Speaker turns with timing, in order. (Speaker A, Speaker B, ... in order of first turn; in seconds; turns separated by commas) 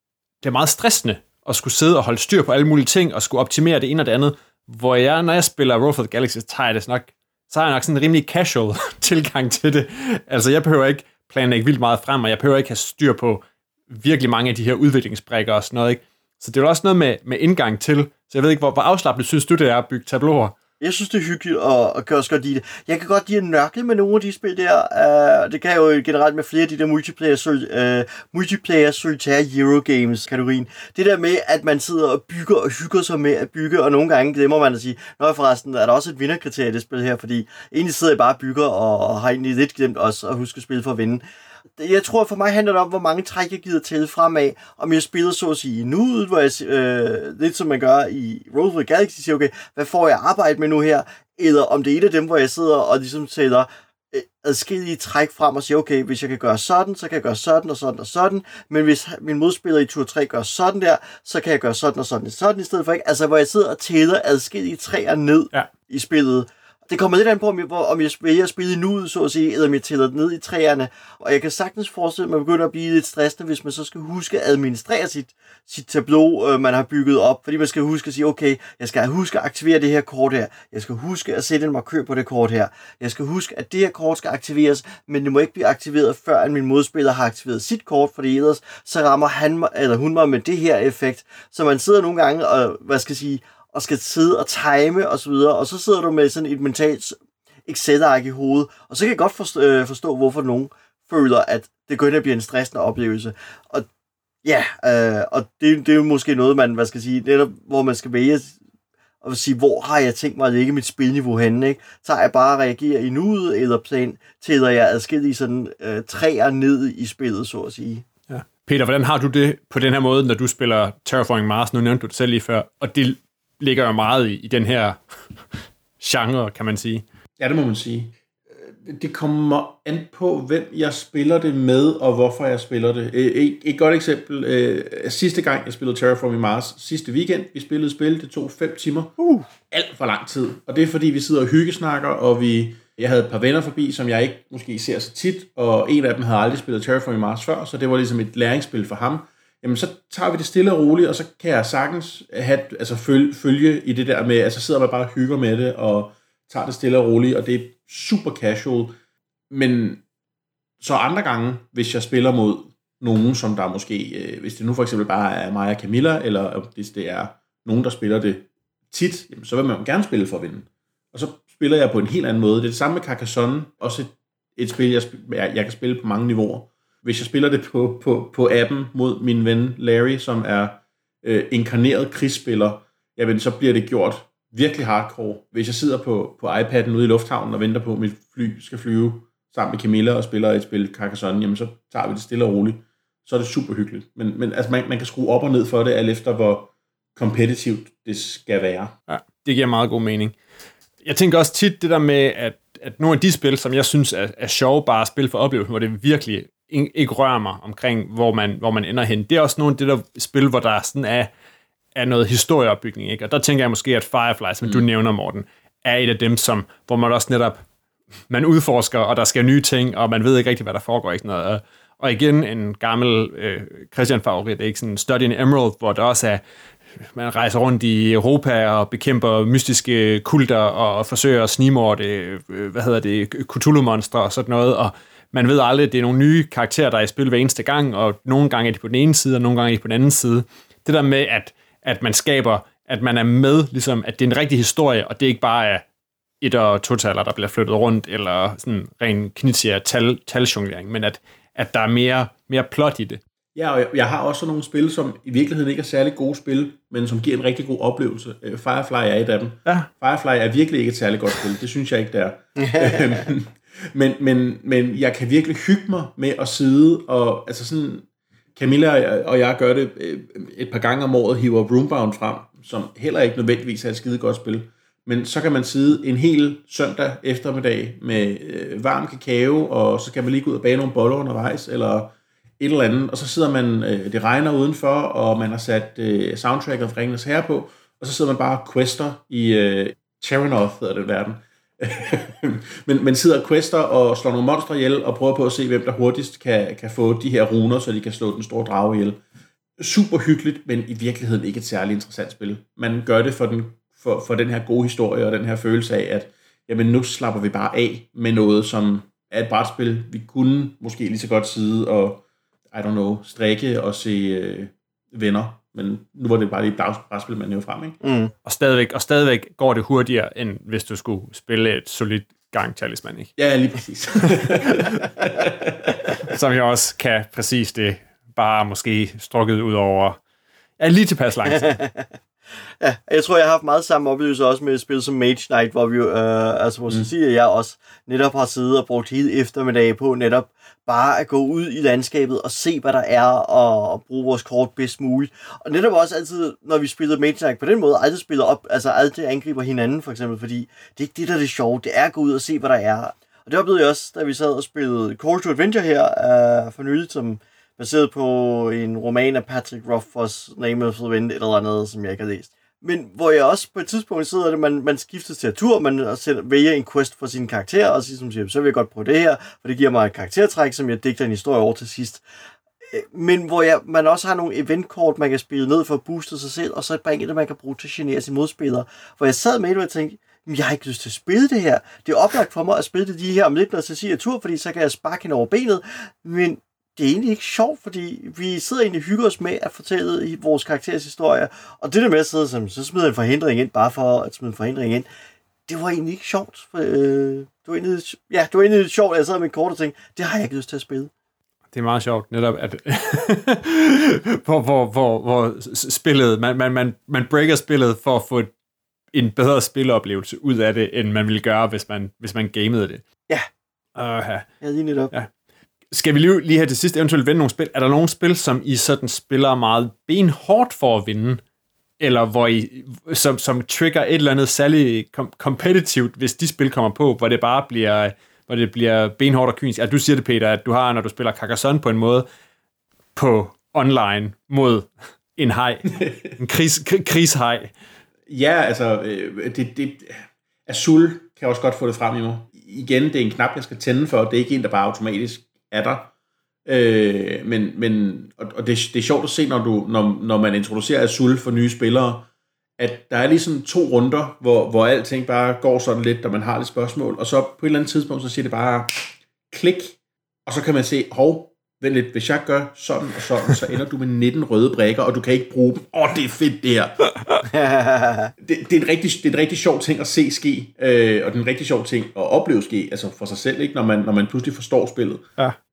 Speaker A: 0.4-20.5, Speaker B: 20.8-41.2, Speaker B: 41.8-103.9, Speaker B: 104.4-108.6, Speaker B: 109.2-118.0, Speaker A: 118.3-125.0, Speaker A: 126.0-127.0, Speaker C: 127.4-139.2, Speaker C: 139.7-159.0, Speaker C: 159.5-160.0, Speaker C: 160.8-198.9, Speaker A: 199.1-200.3, Speaker A: 201.0-211.3, Speaker A: 211.9-217.6, Speaker A: 218.3-226.4, Speaker A: 227.1-245.8, Speaker A: 246.4-253.2, Speaker C: 253.5-299.2, Speaker B: 262.6-263.2, Speaker C: 299.8-318.0, Speaker B: 318.0-318.3, Speaker A: 318.4-323.3, Speaker C: 323.4-326.3, Speaker A: 324.3-325.1, Speaker A: 326.1-330.2, Speaker A: 330.8-331.8, Speaker B: 331.6-332.1, Speaker B: 332.8-372.2, Speaker B: 372.9-395.1, Speaker B: 395.7-401.1, Speaker A: 401.7-408.5, Speaker A: 409.1-413.0, Speaker A: 414.0-414.5, Speaker B: 414.6-415.1, Speaker A: 415.9-421.4, Speaker A: 422.0-432.2, Speaker A: 433.2-437.7, Speaker C: 436.0-436.3, Speaker C: 438.3-446.1, Speaker C: 446.7-467.0, Speaker B: 467.5-468.3, Speaker C: 468.4-475.2